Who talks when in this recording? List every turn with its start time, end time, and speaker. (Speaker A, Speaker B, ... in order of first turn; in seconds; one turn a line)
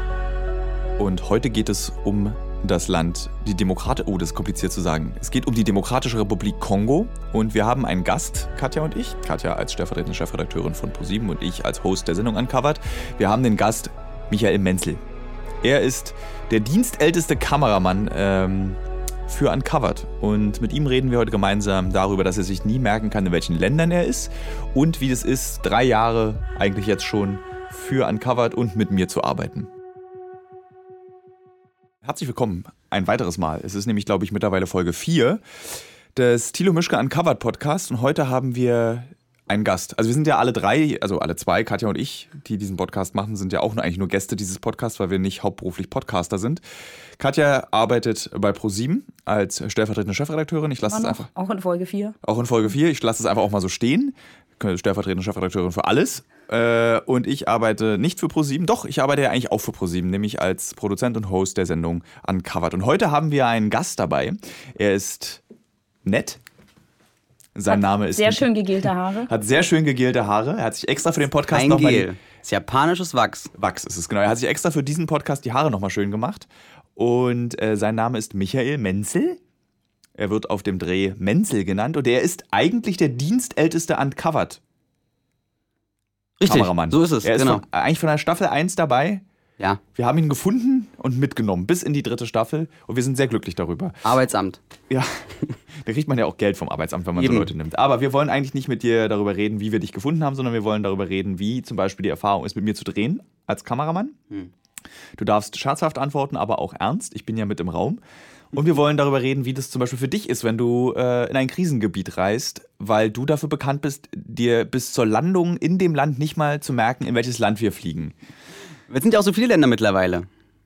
Speaker A: 1.0-15.0
Speaker A: 15.6-29.7
Speaker A: 32.0-35.4
Speaker A: 36.1-46.6
Speaker A: 47.2-51.3
Speaker B: 50.9-52.1
Speaker A: 52.2-65.4
Speaker A: 66.0-66.4
Speaker A: 67.5-68.5
Speaker B: 67.7-69.3
Speaker A: 69.3-72.1
Speaker C: 71.5-73.5
Speaker A: 73.5-79.4
Speaker A: 80.2-84.6
Speaker C: 86.4-87.6
Speaker A: 86.5-89.2
Speaker A: 90.0-94.0
Speaker C: 94.0-94.6
Speaker A: 94.9-95.2
Speaker A: 95.8-104.2
Speaker C: 97.2-97.5
Speaker A: 105.2-108.0
Speaker A: 108.5-118.2
Speaker C: 118.9-120.3